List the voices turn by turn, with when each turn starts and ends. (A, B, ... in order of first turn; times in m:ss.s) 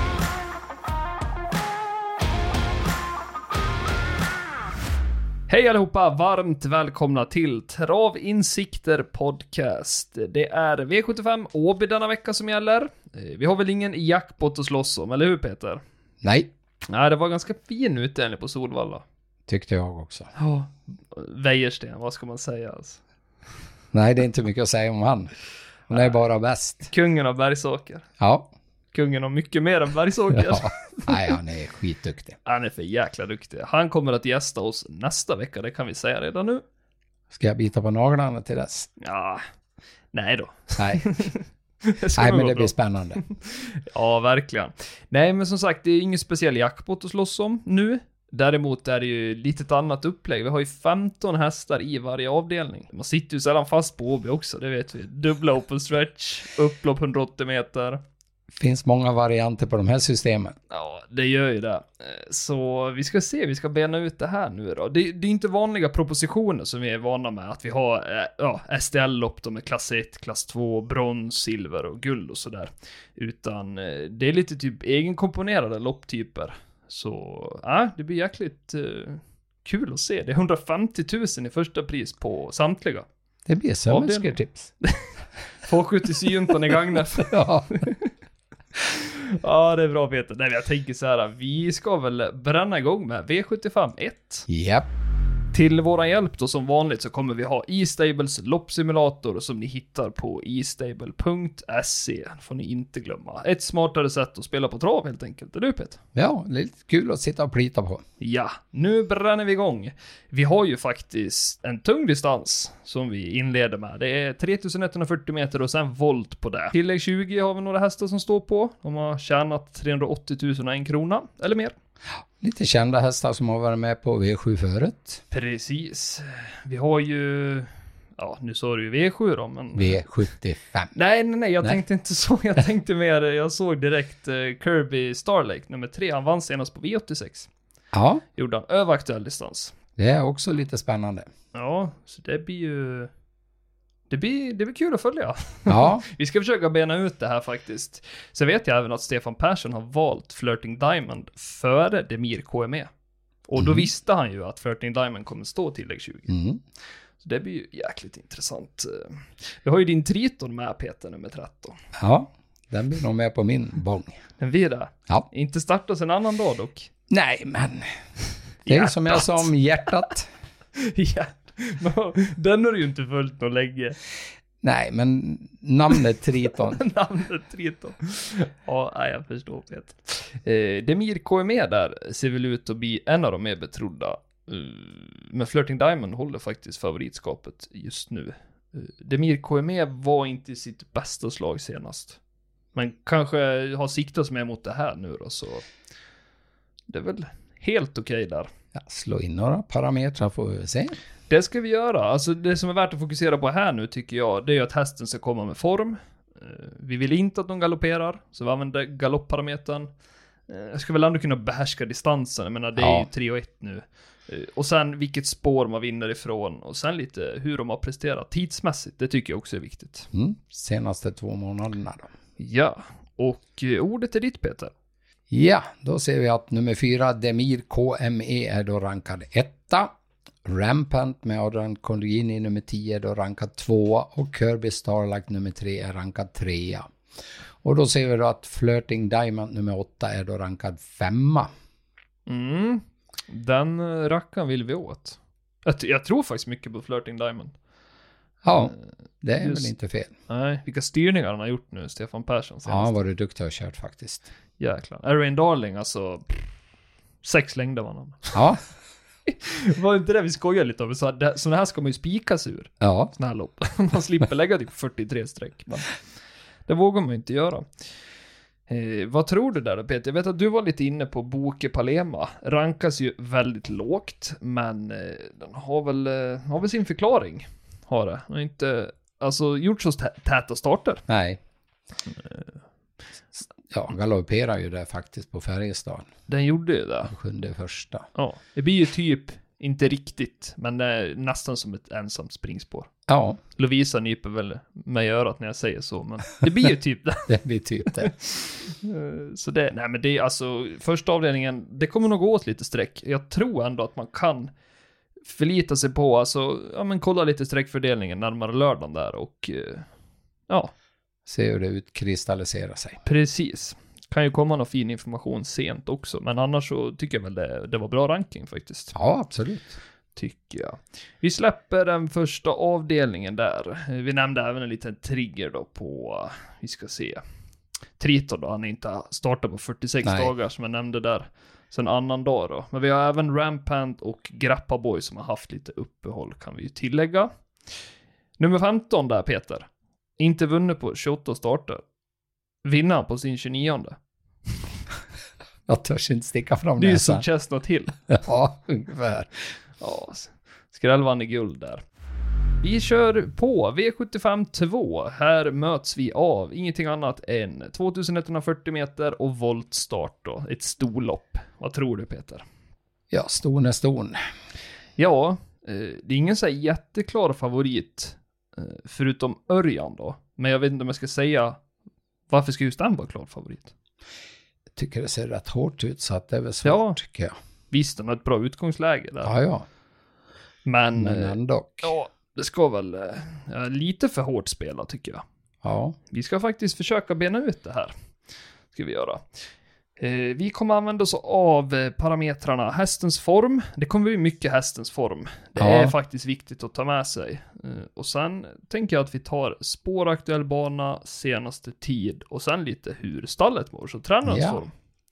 0:05.5-0:15.8 A
0:16.2-0:16.5 B
0:16.9-0:19.0 A
0:19.5-0:20.3 B
0:20.4-0:23.0 A
0:23.9-0:25.3 B
0:25.9-0:26.9 B
0:26.9-0:28.0 A
0:28.2-0:28.5 B
0:28.9-0:31.2 A
0:30.3-0:32.4 B
0:32.5-0:36.6 A
0:37.3-0:38.9 B
0:39.0-0:39.4 A
0:40.1-0:42.7 A
0:40.8-0:41.0 B
0:42.2-0:43.2 B
0:43.2-0:58.0 A
0:58.6-1:00.6 B
1:00.7-1:23.1 A
1:23.5-1:24.7 B
1:23.9-1:25.0 A
1:25.6-1:28.1 A
1:27.2-1:27.8 B
1:28.8-1:34.5 A
1:34.5-1:34.9 B
1:35.5-1:46.0 A
1:46.2-1:48.0 B
1:48.2-2:01.8 A
2:02.4-2:05.2 B
2:05.3-2:10.0 A
2:09.8-2:10.9 B
2:11.0-2:17.5 A
2:17.9-2:18.2 B
2:18.4-2:19.7 A
2:20.0-2:21.2 B
2:21.5-2:23.1 A
2:24.1-2:32.9 A
2:25.7-2:26.0 B
2:33.5-2:36.4 A
2:33.6-2:33.9 B
2:36.3-2:36.6 B
2:37.2-2:41.8 A
2:42.0-2:44.2 B
2:44.4-2:46.9 A
2:47.1-2:47.9 B
2:48.7-2:50.3 B
2:48.7-2:49.5 A
2:50.8-2:54.0 A
2:54.6-2:56.8 B
2:56.7-3:12.2 A
3:12.8-3:15.7 A
3:16.9-3:18.5 A
3:18.8-3:21.0 B
3:21.3-3:29.9 A
3:30.5-3:40.1 A
3:32.8-3:33.1 B
3:40.1-3:42.1 B
3:42.4-3:44.7 A
3:45.3-3:49.9 B
3:50.4-3:56.9 B
3:57.6-4:01.5 B
4:02.3-4:07.6 A
4:08.4-4:10.1 B
4:09.4-4:09.7 A
4:10.3-4:13.0 A
4:12.7-4:14.3 B
4:14.6-4:16.2 A
4:17.2-4:18.4 A
4:18.3-4:18.6 B
4:19.3-4:26.0 A
4:22.8-4:23.1 B
4:26.7-4:27.7 A
4:28.7-4:41.0 A
4:41.1-4:41.4 B
4:43.7-4:46.1 B
4:46.3-4:47.1 A
4:47.1-4:48.1 B
4:48.2-4:52.9 A
4:53.1-4:53.4 B
4:53.6-4:57.4 A
4:57.3-4:58.1 B
4:57.9-5:04.5 A
5:05.3-5:09.9 A
5:11.3-5:13.0 B
5:13.0-5:18.9 A
5:18.9-5:19.8 B
5:20.2-5:27.2 A
5:28.0-5:37.3 A
5:30.0-5:30.3 B
5:38.4-5:39.7 A
5:40.2-5:41.8 A
5:42.6-5:44.0 A
5:45.7-5:47.2 B
5:46.8-5:48.0 A
5:48.1-5:49.3 B
5:49.8-5:51.8 A
5:52.6-6:02.4 A
6:03.1-6:04.2 B
6:05.0-6:11.6 A
6:12.3-6:13.7 A
6:14.8-6:17.3 B
6:16.6-6:17.0 A
6:17.7-6:19.3 A
6:19.2-6:19.7 B
6:20.6-6:25.2 A
6:21.0-6:21.9 B
6:25.6-6:26.0 B
6:26.1-6:27.9 A
6:28.7-6:29.3 A
6:30.0-6:44.7 A
6:35.6-6:35.9 B
6:44.3-6:44.6 B